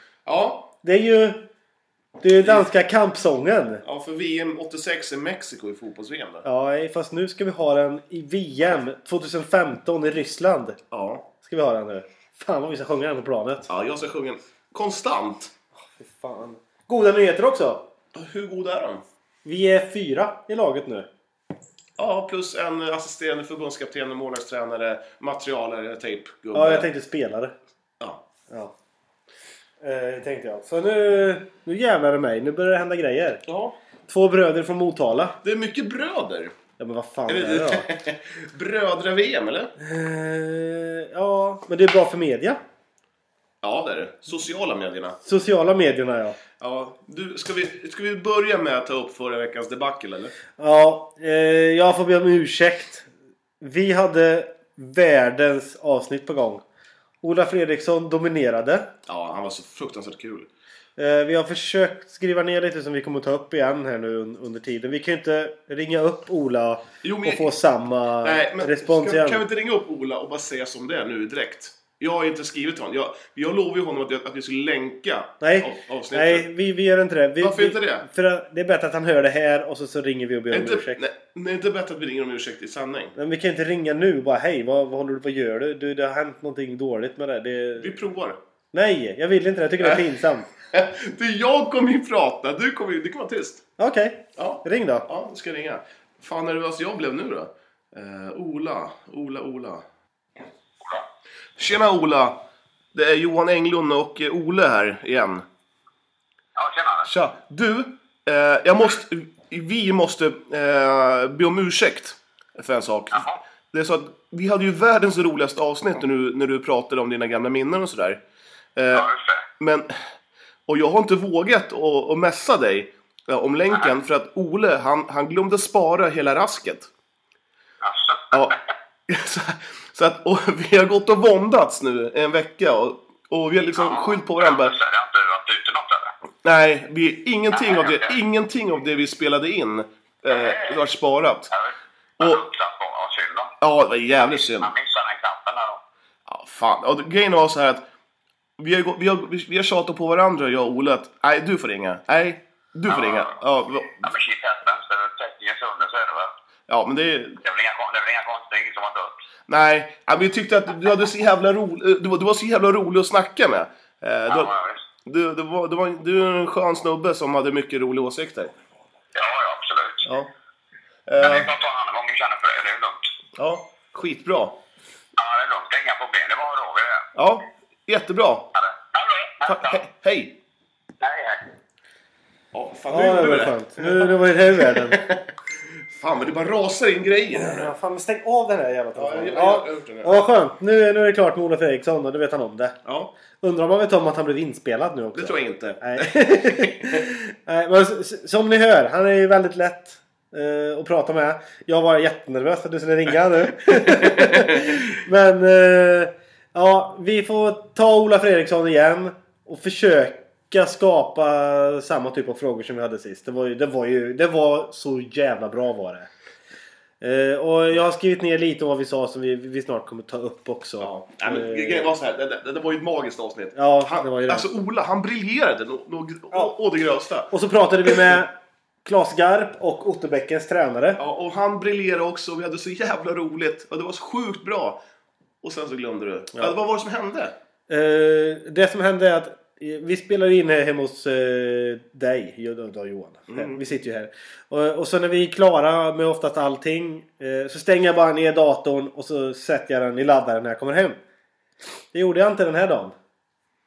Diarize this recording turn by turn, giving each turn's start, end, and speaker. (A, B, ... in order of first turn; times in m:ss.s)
0:00.2-0:00.7 A
0:00.8-0:01.5 B
0:02.2-0:03.8 B
0:02.4-0:02.7 A
0:03.8-0:06.4 A
0:06.4-0:10.8 B
0:10.9-0:11.3 A
0:11.4-0:13.7 B
0:13.7-0:15.5 A
0:16.0-0:17.9 B
0:18.1-0:19.0 A
0:19.4-0:21.1 B
0:22.0-0:26.9 A
0:26.5-0:27.6 B
0:29.8-0:33.4 B
0:33.5-0:33.8 A
0:34.1-0:35.4 B
0:35.4-0:36.6 A
0:36.8-0:37.9 B
0:37.3-0:39.7 A
0:39.8-0:42.6 B
0:43.6-0:45.2 A
0:45.2-0:46.4 B
0:46.6-0:50.4 A
0:50.6-0:53.1 B
0:53.6-0:56.6 B
0:57.2-0:58.9 B
0:59.1-1:00.5 A
1:01.0-1:09.4 B
1:07.0-1:07.6 A
1:08.2-1:16.5 A
1:15.4-1:21.0 B
1:17.4-1:18.1 A
1:20.5-1:23.2 A
1:23.2-1:27.9 B
1:27.8-1:28.4 A
1:28.7-1:30.5 B
1:29.8-1:30.1 A
1:30.7-1:33.6 A
1:33.8-1:35.1 B
1:34.4-1:39.8 A
1:41.6-1:42.4 A
1:42.9-1:45.5 A
1:46.6-1:47.1 C
1:47.0-1:58.2 A
1:53.1-1:53.4 C
1:58.8-1:59.1 A
1:58.9-1:59.4 C
1:59.6-2:00.0 A
2:00.7-2:06.9 A
2:07.8-2:08.6 C
2:09.1-2:14.8 A
2:13.8-2:16.1 C
2:16.4-2:21.5 A
2:17.5-2:18.2 C
2:20.3-2:20.8 C
2:21.5-2:23.5 C
2:23.6-2:24.7 A
2:24.4-2:25.8 C
2:26.3-2:27.8 A
2:28.6-2:34.1 A
2:32.9-2:33.4 C
2:34.0-2:36.3 C
2:36.7-2:37.4 A
2:37.4-2:39.2 C
2:39.5-2:48.5 A
2:44.3-2:44.8 C
2:49.2-2:50.1 C
2:50.0-2:50.3 A
2:51.1-2:51.5 A
2:51.2-2:53.0 C
2:53.4-2:54.6 A
2:55.2-2:57.1 C
2:57.2-2:58.5 A
2:58.5-2:59.8 C
2:59.4-3:00.4 A
3:01.0-3:01.5 C
3:02.5-3:05.3 A
3:02.9-3:05.0 B
3:05.9-3:07.7 A
3:07.4-3:12.8 B
3:09.0-3:10.2 A
3:12.8-3:13.1 A
3:13.4-3:36.1 B
3:15.1-3:17.1 A
3:23.7-3:24.8 A
3:37.0-3:41.9 B
3:40.8-3:47.3 A
3:43.6-3:44.5 B
3:47.3-3:51.0 B
3:51.0-3:54.8 A
3:55.4-3:57.4 A
3:57.7-4:11.0 B
4:03.3-4:03.6 A
4:11.9-4:13.0 B